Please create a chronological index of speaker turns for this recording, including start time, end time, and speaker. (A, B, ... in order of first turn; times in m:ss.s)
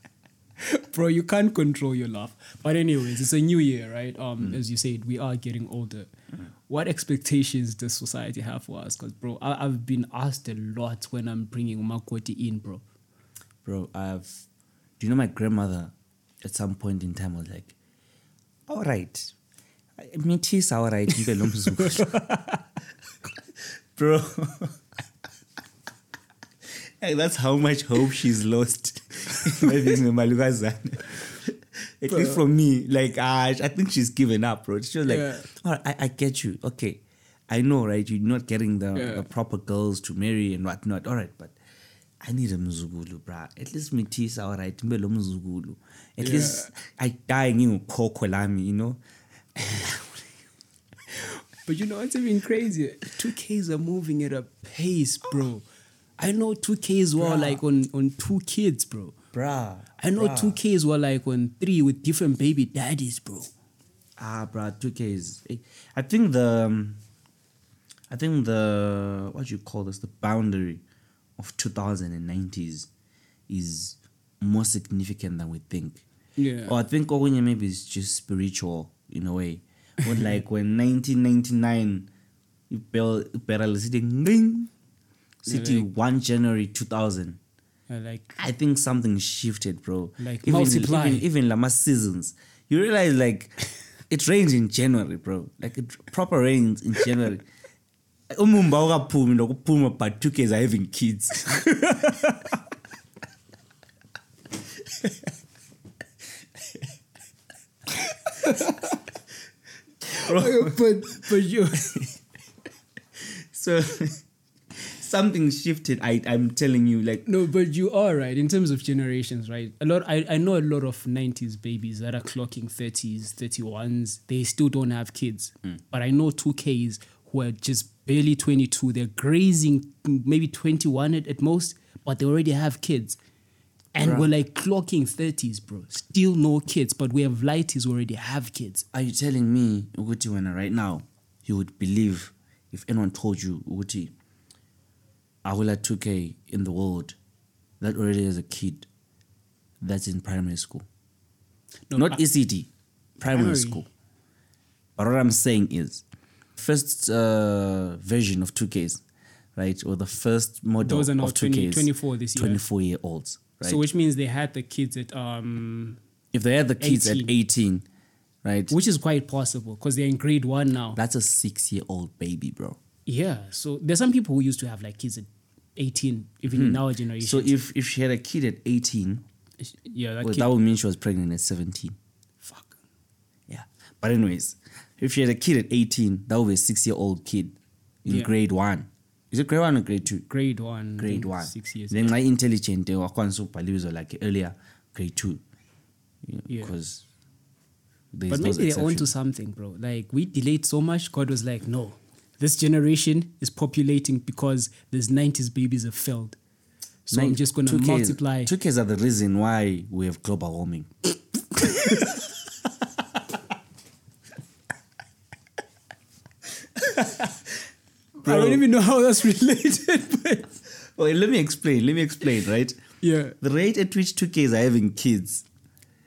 0:00.6-0:06.1 A
0:06.7-0:12.8 A
0:13.6-0:14.4 B
0:15.0-0:17.7 B
0:18.7-0:19.3 B
0:20.0-0:22.3 B
0:22.0-0:22.6 A
0:23.9-0:24.8 B
0:27.0-0:41.6 B
0:32.1-0:32.4 A
0:35.0-0:35.5 A
0:38.9-0:39.2 A
0:42.2-0:49.0 B
0:46.2-0:46.7 A
0:49.5-0:50.2 B
0:51.1-0:55.6 A
0:56.2-0:59.2 A
0:57.2-0:57.6 B
0:59.3-1:00.6 B
1:00.0-1:03.5 A
1:04.2-1:07.0 B
1:08.1-1:10.8 B
1:11.4-1:12.9 B
1:13.5-1:16.0 B
1:16.4-1:16.8 A
1:16.6-1:22.1 B
1:22.7-1:24.7 B
1:25.4-1:27.4 B
1:25.5-1:25.9 A
1:27.9-1:28.4 A
1:28.4-1:33.6 B
1:30.2-1:31.2 A
1:34.1-1:37.5 B
1:38.3-1:42.3 B
1:41.9-1:42.3 A
1:48.3-1:48.9 A
1:50.1-1:52.1 A
1:50.2-1:51.2 B
1:51.8-1:52.1 B
1:53.2-1:57.2 B
1:57.2-2:13.2 A
2:13.9-2:18.8 A
2:14.0-2:14.3 B
2:18.9-2:24.1 B
2:25.4-2:27.2 B
2:27.8-2:28.9 B
2:29.8-2:30.8 B
2:31.9-2:32.2 A
2:32.0-2:32.7 B
2:33.2-2:33.9 B
2:33.2-2:33.8 A
2:35.0-2:36.0 B
2:36.6-2:39.0 B
2:39.6-2:43.8 B
2:40.8-2:42.6 A
2:43.6-2:46.0 A
2:46.3-2:47.8 B
2:46.8-2:47.3 A
2:48.4-2:48.7 B
2:48.7-2:51.0 A
2:51.0-2:52.8 B
2:53.1-2:57.5 A
2:56.5-2:59.2 B
2:59.6-3:00.5 A
3:00.2-3:02.0 B
3:02.4-3:02.8 A
3:03.5-3:10.3 B
3:08.1-3:08.3 A
3:10.3-3:12.2 A
3:11.0-3:15.4 B
3:16.2-3:17.0 B
3:16.5-3:16.7 A
3:18.1-3:19.1 B
3:18.3-3:26.4 A
3:27.0-3:28.5 A
3:27.1-3:32.2 B
3:31.6-3:32.1 A
3:36.8-3:37.3 A
3:38.2-3:40.5 A
3:38.2-3:38.6 B
3:40.9-3:42.8 B
3:43.0-3:43.4 A
3:43.4-3:45.4 B